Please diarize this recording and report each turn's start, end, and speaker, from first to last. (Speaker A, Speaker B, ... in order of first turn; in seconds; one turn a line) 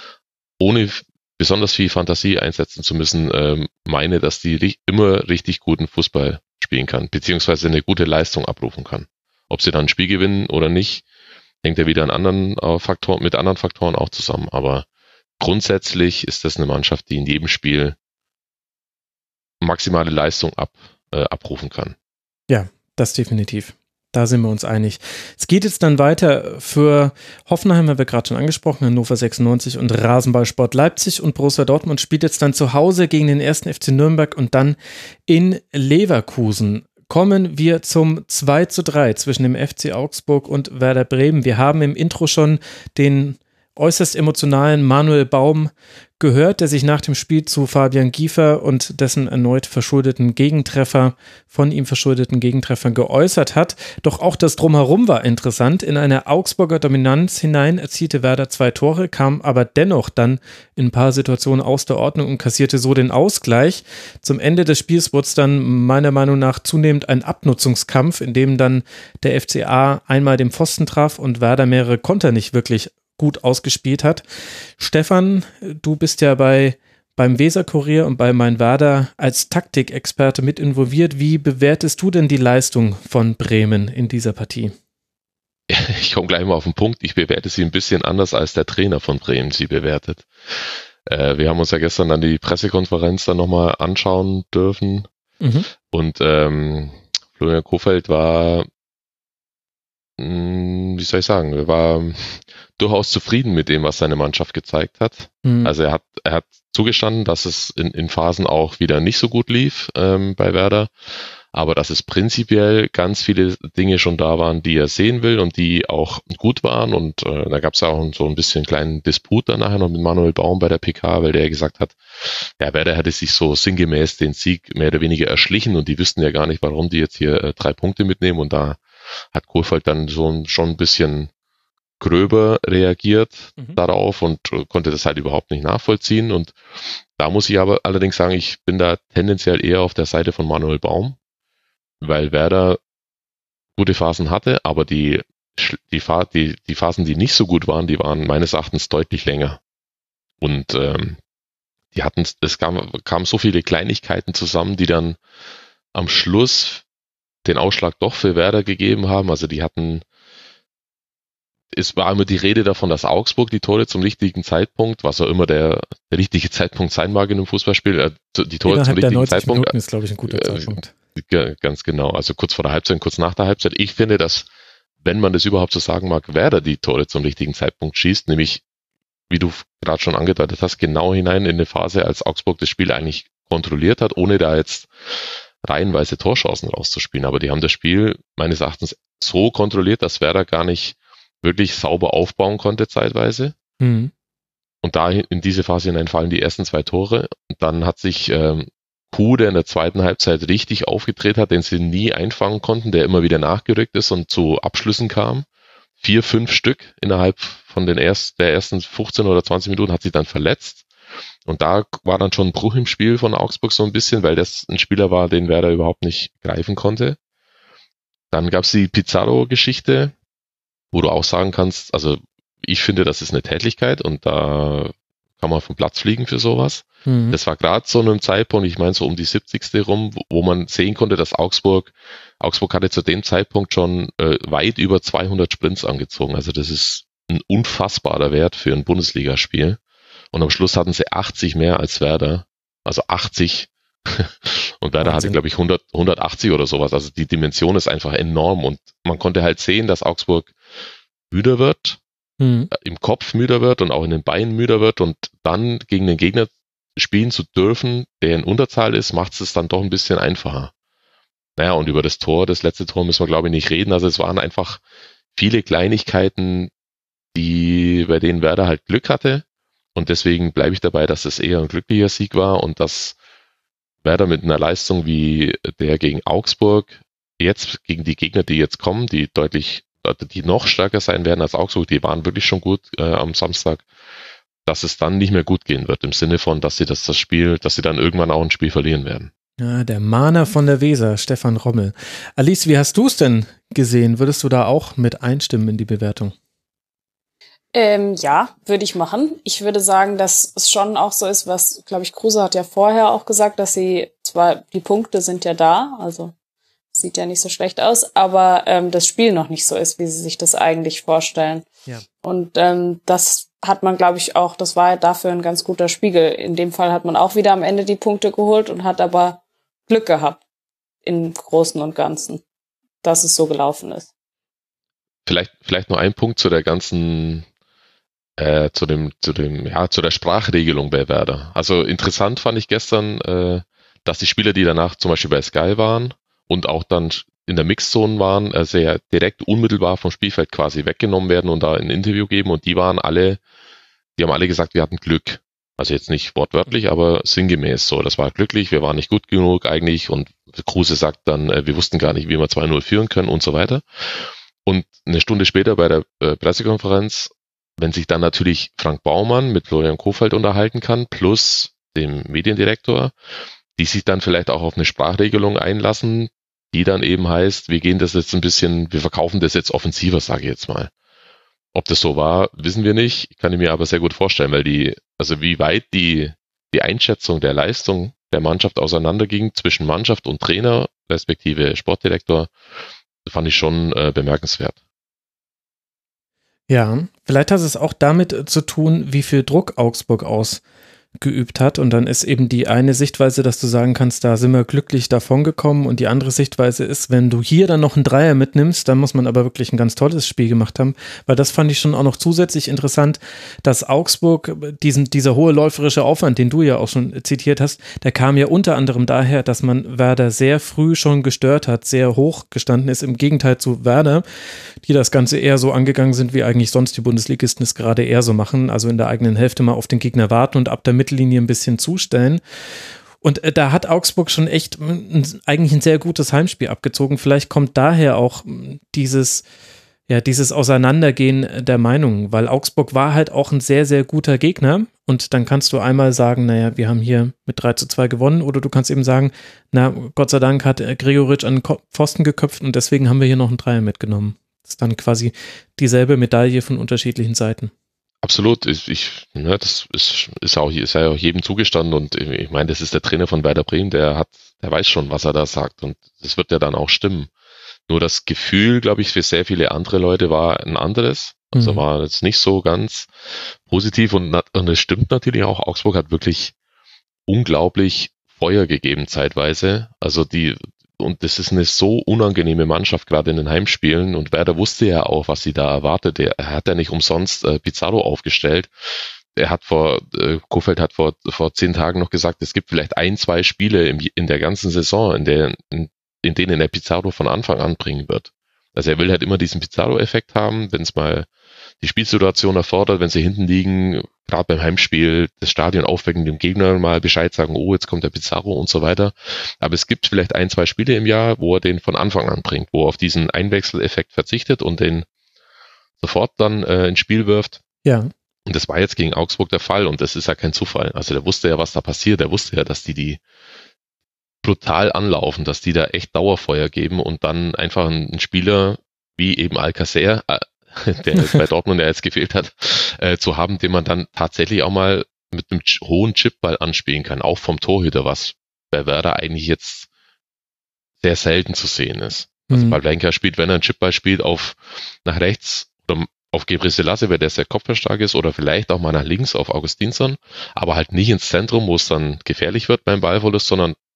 Speaker A: 0.6-11.0
Speaker A: 11.6-14.8
Speaker A: 15.4-17.9
Speaker A: 19.6-21.9
Speaker B: 22.5-74.2
Speaker B: 74.8-84.7
Speaker A: 85.7-95.1
Speaker B: 95.4-95.7
Speaker A: 95.8-98.7
Speaker A: 100.2-110.9
Speaker B: 105.4-105.7
Speaker A: 111.5-122.0
Speaker A: 122.6-131.3
Speaker A: 132.0-136.6
Speaker A: 137.2-141.2
Speaker A: 142.0-142.8
Speaker A: 143.8-149.6
Speaker A: 150.4-151.2
Speaker A: 151.9-155.2
Speaker A: 155.9-156.8
Speaker A: 157.4-160.0
Speaker A: 161.7-169.7
Speaker B: 168.7-170.9
Speaker A: 170.3-174.5
Speaker A: 175.0-178.6
Speaker A: 179.3-184.9
Speaker A: 185.6-193.5
Speaker B: 193.8-194.1
Speaker A: 194.8-205.4
Speaker A: 206.0-210.8
Speaker A: 211.4-217.2
Speaker A: 218.3-220.1
Speaker A: 220.9-239.8
Speaker B: 227.1-227.4
Speaker A: 240.3-250.5
Speaker B: 245.0-245.4
Speaker A: 251.3-252.0
Speaker B: 252.4-252.7
Speaker A: 252.7-260.7
Speaker A: 261.6-264.8
Speaker A: 265.3-266.7
Speaker A: 267.3-273.1
Speaker A: 274.0-283.9
Speaker A: 284.6-289.3
Speaker B: 289.6-296.3
Speaker C: 297.7-306.3
Speaker C: 306.9-311.6
Speaker C: 312.2-320.4
Speaker C: 321.0-322.4
Speaker C: 323.0-324.1
Speaker A: 325.2-327.5
Speaker A: 328.4-343.4
Speaker A: 344.2-363.1
Speaker A: 363.8-370.9
Speaker A: 371.7-382.5
Speaker A: 383.2-384.8
Speaker B: 386.7-390.6
Speaker B: 391.2-414.2
Speaker B: 414.8-422.4
Speaker B: 423.2-429.4
Speaker B: 430.1-447.7
Speaker A: 448.2-457.3
Speaker A: 457.9-463.1
Speaker B: 461.5-461.8
Speaker A: 463.6-466.5
Speaker A: 467.3-478.7
Speaker A: 479.4-491.3
Speaker A: 491.8-505.1
Speaker A: 506.0-507.6
Speaker B: 507.8-508.1
Speaker A: 508.4-513.2
Speaker A: 514.4-529.9
Speaker A: 531.0-543.8
Speaker B: 532.5-532.8